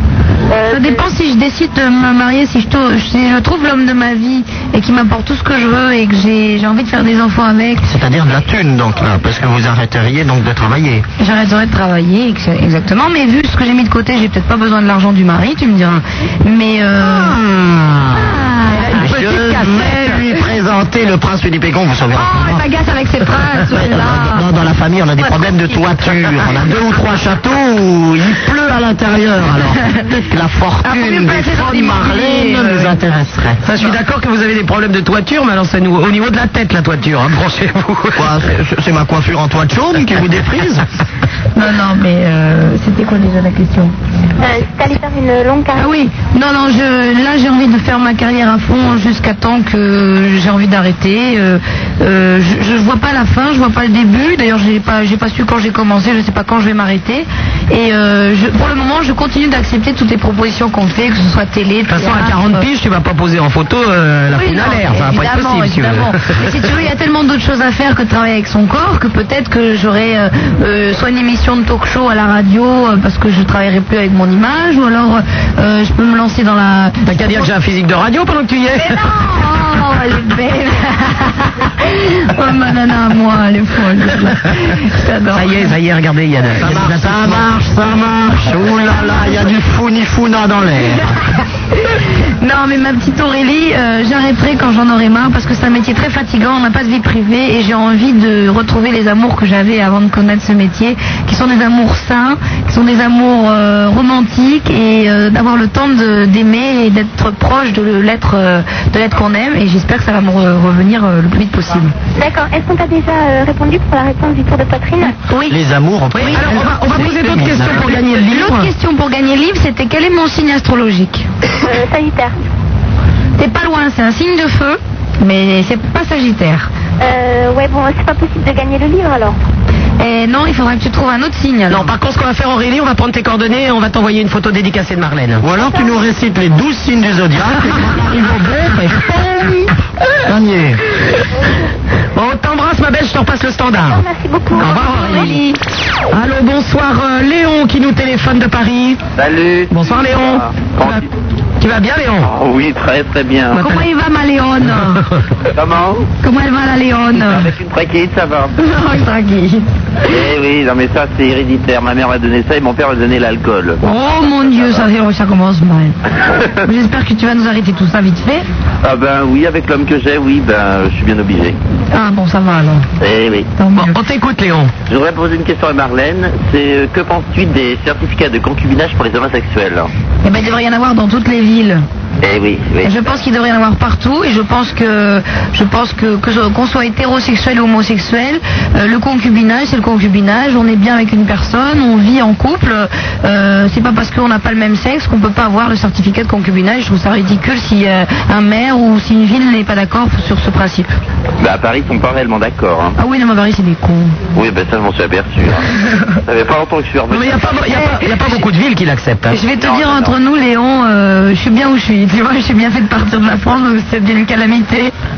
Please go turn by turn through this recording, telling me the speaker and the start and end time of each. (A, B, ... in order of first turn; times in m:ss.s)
0:00.5-0:01.0 A
0:00.7-0:07.9 B
0:07.8-0:11.1 C
0:11.2-0:17.4 B
0:17.0-0:18.4 C
0:18.2-0:19.0 B
0:18.7-0:20.2 D
0:19.0-0:22.7 C
0:22.1-0:24.5 B
0:23.7-0:33.6 C
0:25.2-0:25.7 B
0:30.8-0:33.0 B
0:33.6-0:38.3 D
0:38.2-0:40.9 C
0:41.6-0:43.9 B
0:44.4-0:46.0 A
0:45.8-1:02.6 B
1:01.9-1:06.5 D
1:04.4-1:17.5 B
1:17.1-1:19.1 D
1:18.8-1:25.7 B
1:25.3-1:27.4 D
1:26.6-1:31.2 C
1:28.9-1:29.3 B
1:31.8-1:51.9 B
1:52.2-1:55.2 A
1:55.1-1:55.6 B
1:55.5-1:58.0 C
1:56.2-1:58.7 D
1:57.9-2:01.3 B
2:01.6-2:02.4 A
2:03.4-2:06.7 B
2:07.0-2:09.4 A
2:10.0-2:11.9 B
2:11.7-2:15.4 D
2:15.4-2:19.7 C
2:15.6-2:16.0 A
2:20.2-2:20.8 C
2:22.2-2:25.4 D
2:23.8-2:25.3 A
2:24.6-2:25.6 B
2:26.1-2:29.0 D
2:29.2-2:31.0 E
2:29.7-2:31.0 D
2:31.6-2:32.3 D
2:32.2-2:33.7 E
2:33.5-2:35.0 B
2:35.5-2:36.1 E
2:36.2-2:37.5 B
2:37.2-2:38.6 E
2:38.6-2:39.6 B
2:40.1-2:43.8 E
2:43.8-2:46.0 B
2:44.4-2:44.9 E
2:46.6-2:48.4 B
2:48.8-2:51.6 E
2:51.9-2:52.8 B
2:53.0-2:53.5 E
2:53.6-2:54.0 B
2:53.8-2:54.7 D
2:54.9-2:59.9 E
3:00.2-3:01.8 B
3:02.2-3:02.9 E
3:02.8-3:20.9 B
3:21.4-3:23.0 E
3:23.0-3:24.2 B
3:24.4-3:25.7 E
3:26.2-3:27.5 E
3:27.1-3:29.4 D
3:27.7-3:28.4 B
3:29.3-3:34.9 B
3:29.5-3:30.2 E